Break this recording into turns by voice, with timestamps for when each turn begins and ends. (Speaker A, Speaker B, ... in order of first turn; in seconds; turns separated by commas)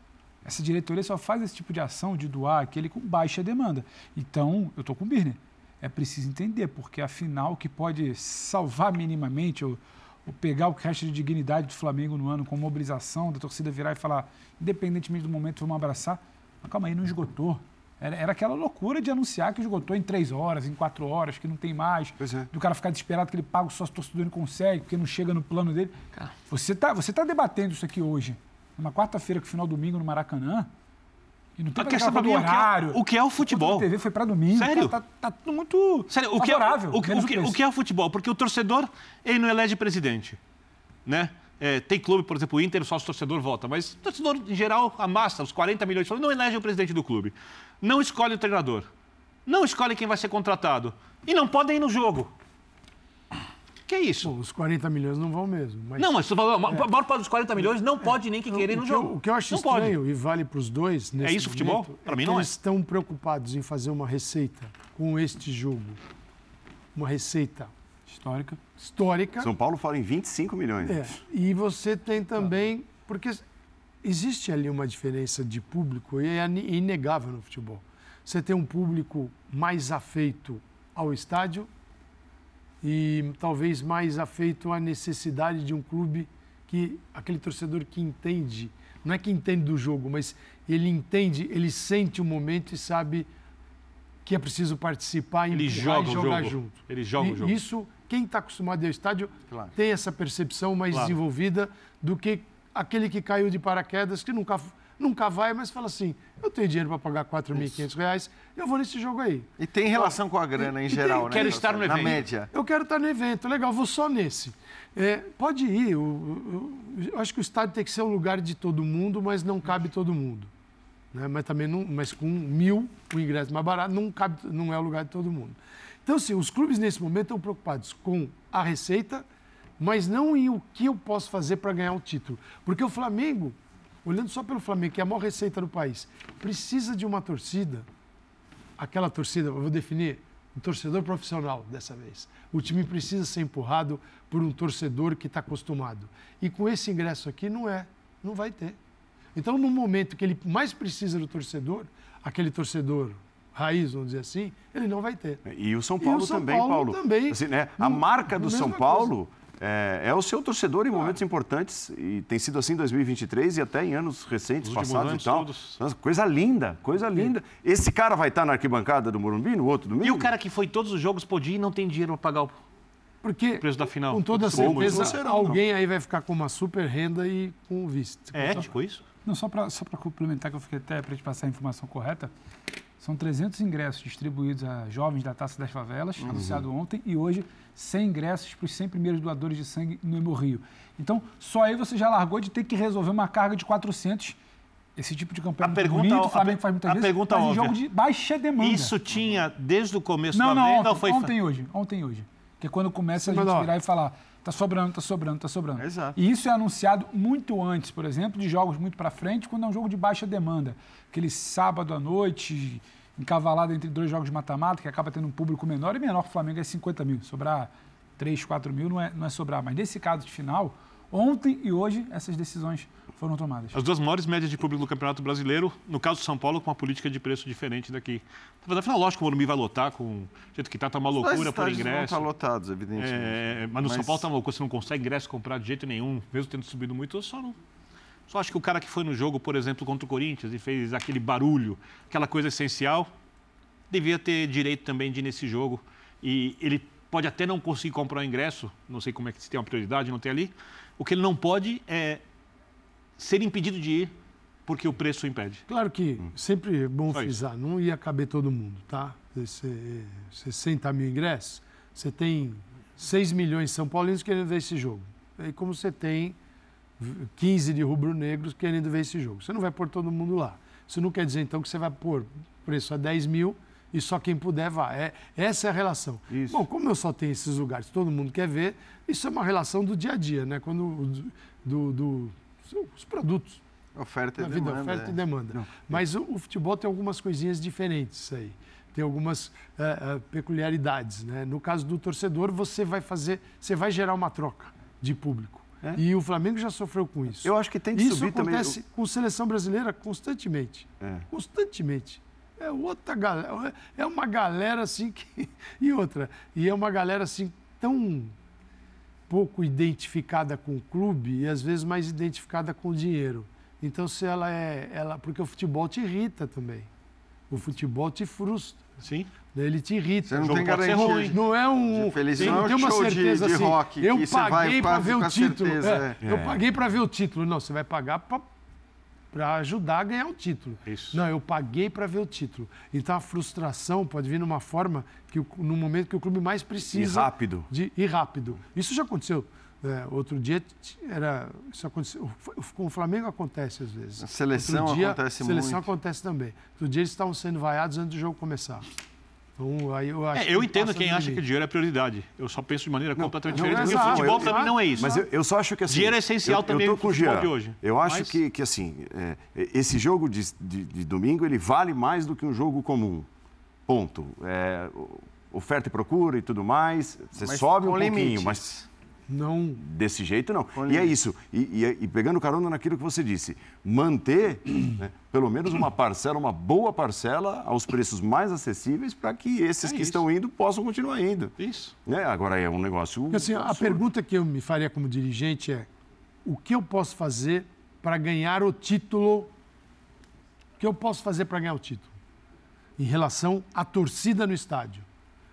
Speaker A: 0.4-25.9, Speaker B: 22.2-22.5, Speaker A: 26.5-30.7, Speaker A: 31.6-37.5, Speaker C: 31.8-33.9, Speaker C: 34.5-34.9, Speaker C: 36.1-40.4, Speaker C: 41.0-48.9, Speaker C: 49.5-52.3, Speaker C: 53.9-54.3, Speaker D: 54.2-56.1, Speaker C: 56.0-60.0, Speaker D: 58.5-66.0, Speaker C: 61.2-62.5, Speaker D: 66.9-67.7, Speaker A: 68.1-68.6, Speaker D: 68.8-69.5, Speaker B: 69.4-71.1, Speaker D: 70.8-73.4, Speaker D: 74.0-81.7, Speaker D: 82.8-93.3, Speaker D: 94.2-111.6, Speaker C: 95.5-97.6, Speaker E: 99.5-99.7, Speaker C: 100.9-101.2, Speaker E: 109.6-112.5, Speaker C: 110.9-112.2, Speaker D: 112.5-120.5, Speaker D: 121.1-129.2, Speaker D: 129.8-137.9, Speaker D: 138.8-148.8, Speaker D: 149.3-155.4, Speaker B: 155.4-170.3, Speaker D: 156.0-159.1, Speaker C: 164.6-165.8, Speaker C: 170.0-172.6, Speaker D: 173.2-178.7, Speaker C: 173.6-175.2, Speaker B: 174.5-175.6, Speaker C: 178.3-179.0, Speaker A: 179.2-182.3, Speaker A: 183.0-194.4, Speaker B: 186.3-186.6, Speaker A: 194.9-198.9, Speaker C: 195.6-197.8, Speaker C: 198.6-201.3, Speaker A: 200.3-223.8, Speaker D: 203.2-203.7, Speaker E: 205.8-206.2, Speaker C: 223.7-232.3, Speaker E: 231.2-234.2, Speaker C: 233.0-237.6, Speaker C: 238.3-243.1, Speaker C: 243.9-252.2, Speaker C: 253.2-254.1, Speaker C: 254.7-255.6, Speaker D: 255.7-266.4, Speaker C: 257.1-257.4, Speaker D: 267.0-283.6, Speaker B: 276.3-276.6, Speaker E: 283.9-285.2, Speaker D: 284.4-308.3, Speaker B: 285.5-286.0, Speaker B: 297.4-298.8, Speaker B: 301.0-301.3, Speaker D: 309.3-316.9, Speaker D: 317.5-318.8, Speaker C: 319.0-319.3, Speaker D: 319.5-328.4, Speaker E: 320.3-326.2, Speaker C: 320.4-321.4, Speaker C: 322.4-322.7, Speaker B: 326.2-326.6, Speaker D: 329.3-348.9, Speaker C: 330.9-331.2, Speaker B: 336.9-337.7, Speaker E: 344.2-345.9, Speaker D: 349.6-351.4, Speaker C: 350.3-355.2, Speaker B: 353.2-363.3, Speaker D: 353.4-355.2, Speaker C: 355.9-358.4, Speaker B: 363.9-368.6, Speaker E: 367.4-368.9, Speaker D: 369.3-369.8, Speaker B: 369.8-381.5, Speaker E: 370.8-371.1, Speaker C: 379.8-380.2, Speaker C: 381.6-381.9, Speaker B: 382.1-384.0, Speaker D: 383.3-385.9, Speaker D: 386.4-389.5, Speaker D: 390.8-392.1, Speaker D: 393.0-395.1